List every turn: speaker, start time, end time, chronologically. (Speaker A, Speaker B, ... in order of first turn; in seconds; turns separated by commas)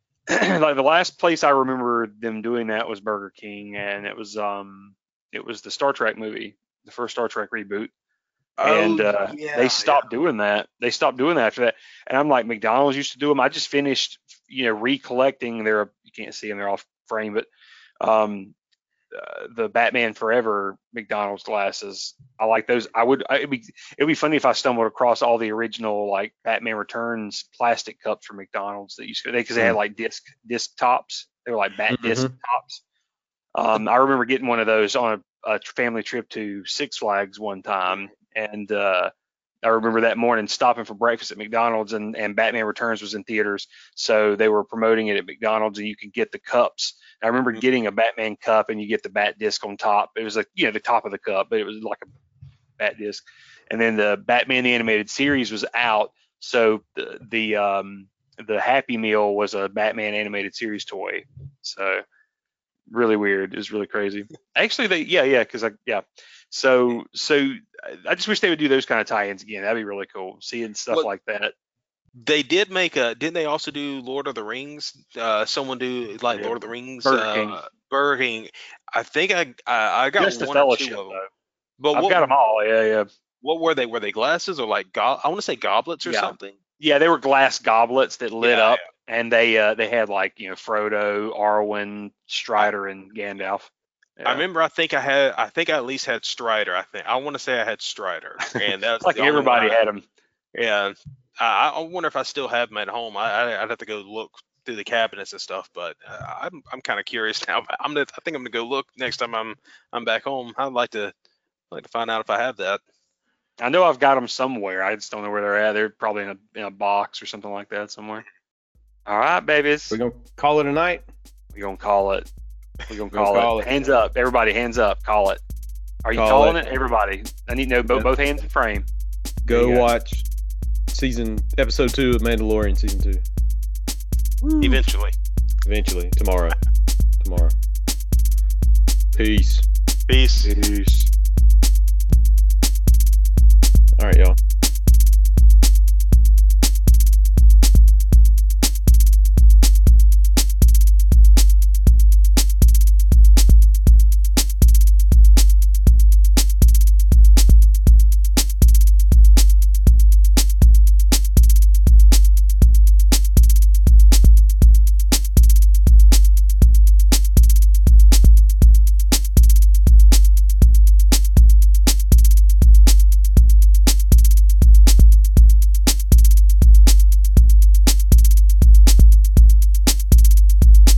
Speaker A: 0.3-7.9, Speaker B: 8.6-10.0, Speaker A: 8.6-17.5, Speaker A: 18.0-18.5, Speaker A: 19.1-32.8, Speaker C: 31.9-32.3, Speaker A: 33.5-39.1, Speaker A: 39.6-52.1, Speaker A: 52.8-62.0, Speaker A: 62.9-71.5, Speaker B: 72.2-81.2, Speaker A: 76.3-77.6, Speaker A: 80.2-81.3, Speaker B: 81.8-82.3, Speaker A: 81.9-83.1, Speaker B: 83.4-86.6, Speaker A: 86.0-94.4, Speaker B: 88.4-88.8, Speaker B: 94.2-99.8, Speaker A: 98.5-100.0, Speaker B: 100.5-111.1, Speaker B: 111.7-112.8, Speaker A: 113.6-118.2, Speaker A: 119.1-120.0, Speaker C: 119.9-121.0, Speaker A: 121.5-122.3, Speaker A: 122.9-125.4, Speaker C: 123.1-124.0, Speaker A: 126.0-128.8, Speaker C: 126.1-126.6, Speaker C: 129.4-130.3, Speaker A: 129.5-129.9, Speaker C: 130.9-133.2, Speaker A: 134.4-134.8, Speaker B: 134.6-135.1, Speaker C: 135.6-136.6, Speaker C: 137.2-137.5, Speaker C: 139.1-139.7, Speaker B: 140.1-140.5, Speaker A: 140.4-141.1, Speaker C: 143.9-144.3